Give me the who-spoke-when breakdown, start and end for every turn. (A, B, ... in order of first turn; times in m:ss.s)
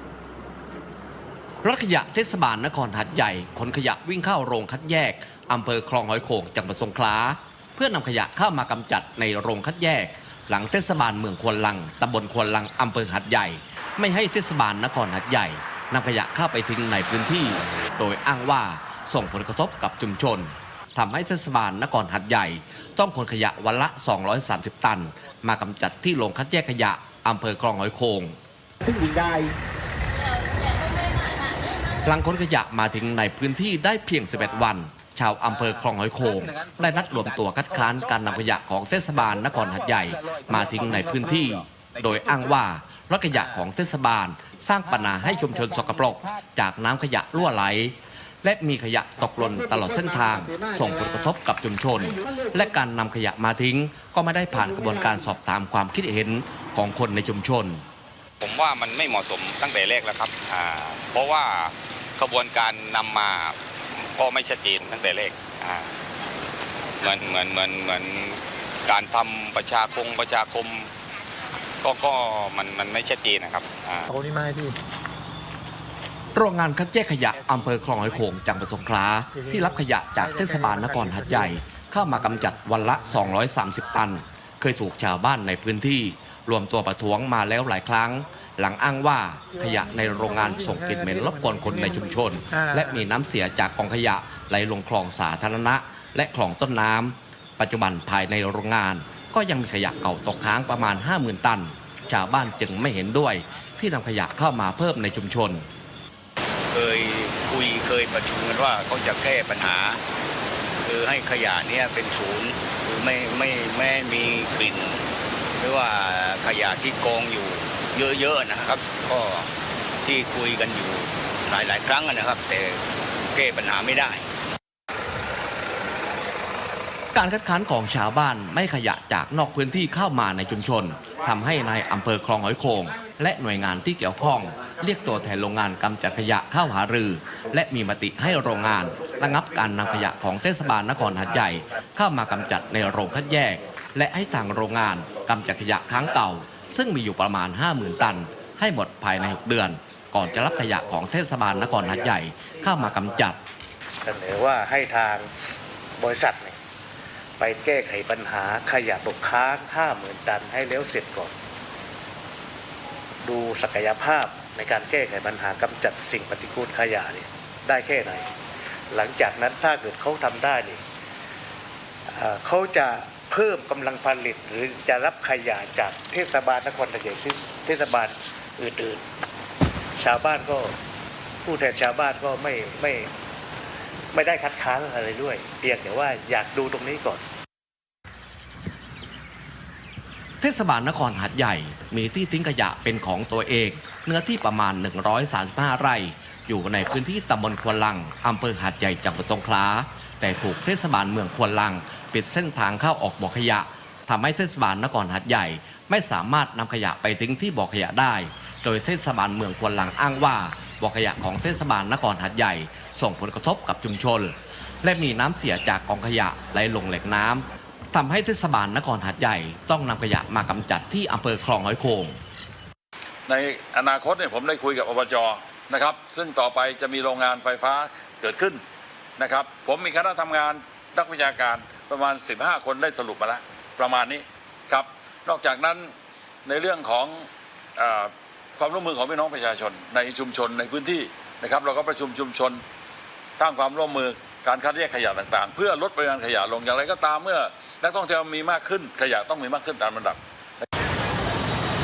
0:01.6-0:28.4 A
0:28.9-0:29.5 B
0:32.0-0:57.8 A
0:35.6-0:38.4 B
0:39.5-0:42.6 B
0:44.9-0:46.4 B
0:58.4-1:06.0 C
1:07.0-1:10.9 C
1:11.8-1:14.1 C
1:16.4-1:45.7 A
1:46.7-1:50.0 D
1:50.9-1:55.1 D
1:55.6-1:59.5 D
2:00.0-2:02.8 D
2:03.4-2:04.2 D
2:07.1-2:33.4 A
2:34.0-2:36.6 E
2:37.4-2:41.4 E
2:43.2-2:48.3 E
2:48.9-2:50.8 E
2:52.1-2:59.0 E
3:00.0-3:00.8 E
3:01.4-3:03.1 E
3:04.1-3:07.2 E
3:10.4-3:42.2 A
3:43.3-3:48.6 F
3:49.2-3:55.9 F
3:56.5-4:02.6 F
4:03.4-4:10.6 F